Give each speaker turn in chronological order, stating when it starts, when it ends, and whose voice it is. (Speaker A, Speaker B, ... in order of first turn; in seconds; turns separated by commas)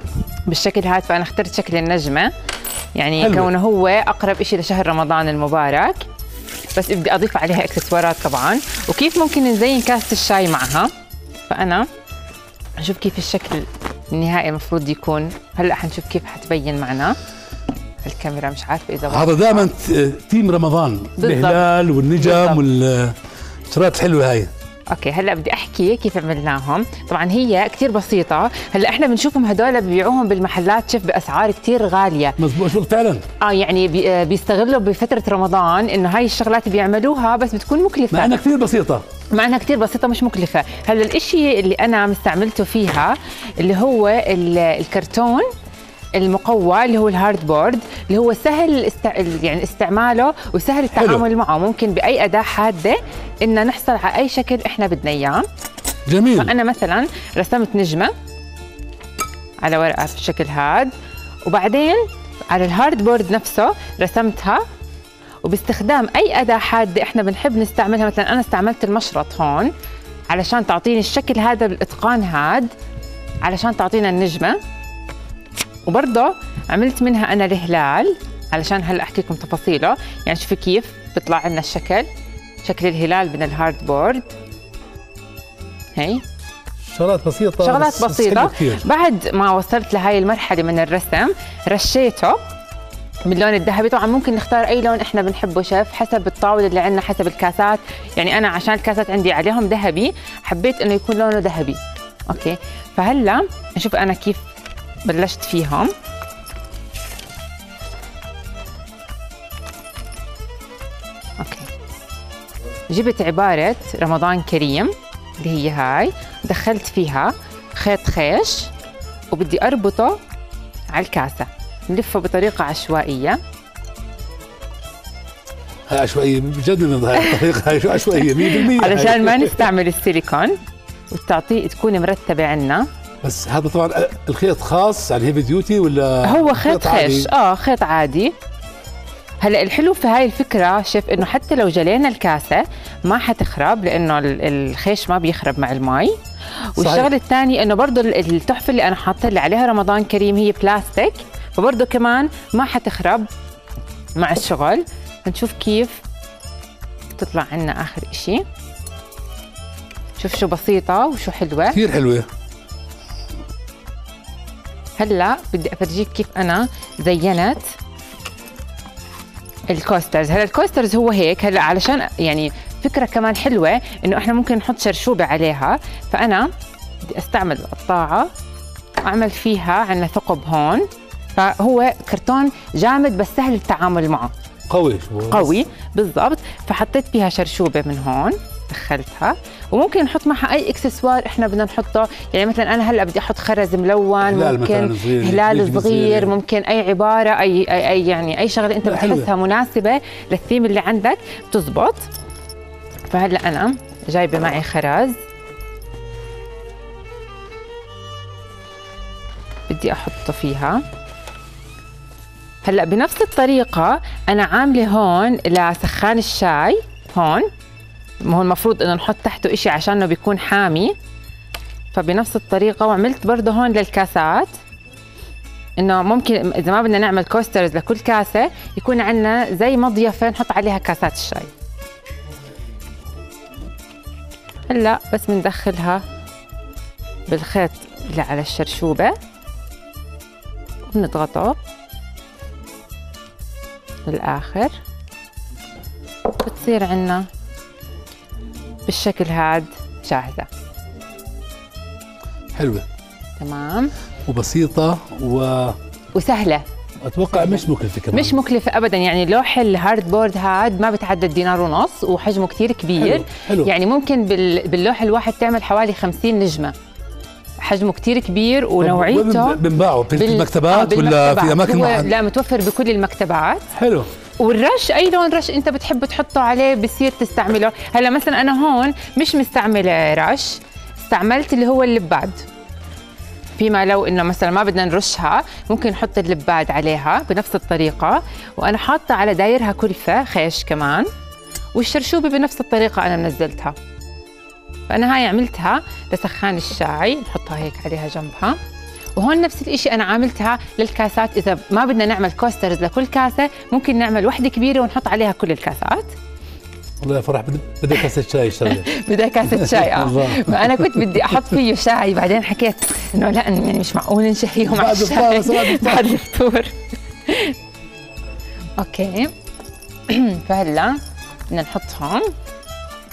Speaker A: 0.5-2.3, Speaker A: 2.9-6.0, Speaker B: 3.2-3.5, Speaker A: 6.7-10.9, Speaker A: 11.5-11.9, Speaker A: 12.8-17.2, Speaker A: 18.0-19.7, Speaker B: 19.1-23.2, Speaker A: 21.2-22.6, Speaker B: 23.7-24.5, Speaker A: 24.9-32.4, Speaker B: 32.4-33.2, Speaker A: 33.4-38.4, Speaker B: 38.1-39.0, Speaker A: 39.3-45.5, Speaker A: 46.2-55.5, Speaker B: 50.9-51.2, Speaker B: 56.0-56.5, Speaker A: 56.3-58.1, Speaker A: 59.6-60.9, Speaker A: 61.5-64.6, Speaker A: 65.4-69.7, Speaker A: 70.3-72.7, Speaker A: 73.4-74.6, Speaker A: 75.8-82.1, Speaker A: 82.6-84.2, Speaker A: 86.0-86.2, Speaker B: 86.8-88.9, Speaker A: 87.6-92.4, Speaker A: 93.3-104.4, Speaker A: 105.0-105.9, Speaker A: 111.4-111.7, Speaker A: 112.9-118.7, Speaker A: 119.3-120.2, Speaker A: 120.9-123.4, Speaker B: 125.9-129.7, Speaker A: 127.2-127.4, Speaker A: 128.0-130.6, Speaker A: 131.1-132.9, Speaker B: 133.2-137.3, Speaker A: 136.2-138.3, Speaker A: 139.4-146.2, Speaker A: 146.7-153.3, Speaker B: 146.8-147.1, Speaker A: 154.2-156.0, Speaker A: 157.2-158.4, Speaker A: 160.2-161.8, Speaker B: 161.7-162.3, Speaker A: 165.0-167.7, Speaker A: 169.7-176.5, Speaker A: 177.0-178.3, Speaker A: 179.0-184.3, Speaker B: 184.7-185.5, Speaker A: 185.3-202.1, Speaker B: 194.2-196.4, Speaker B: 198.8-199.3, Speaker A: 203.1-205.2, Speaker A: 209.7-210.8, Speaker A: 212.6-217.5, Speaker A: 218.2-220.9, Speaker A: 221.9-224.5, Speaker A: 225.8-231.5, Speaker A: 234.7-236.0, Speaker A: 237.3-239.2, Speaker A: 240.9-241.6, Speaker A: 244.1-244.8, Speaker A: 246.4-247.2, Speaker A: 248.9-250.5, Speaker B: 252.5-252.8, Speaker A: 253.4-253.9, Speaker B: 254.2-255.8, Speaker A: 256.1-256.6, Speaker B: 257.0-258.4, Speaker A: 257.3-266.7, Speaker B: 262.9-263.7, Speaker A: 267.6-273.7, Speaker B: 268.8-272.1, Speaker B: 273.7-274.1, Speaker A: 274.4-282.4, Speaker A: 283.6-291.1, Speaker A: 291.7-293.8, Speaker A: 294.9-298.6, Speaker A: 299.1-306.1, Speaker B: 307.0-308.9, Speaker A: 308.6-317.5, Speaker B: 309.4-311.3, Speaker B: 314.7-316.1, Speaker A: 318.8-319.3, Speaker A: 320.1-322.3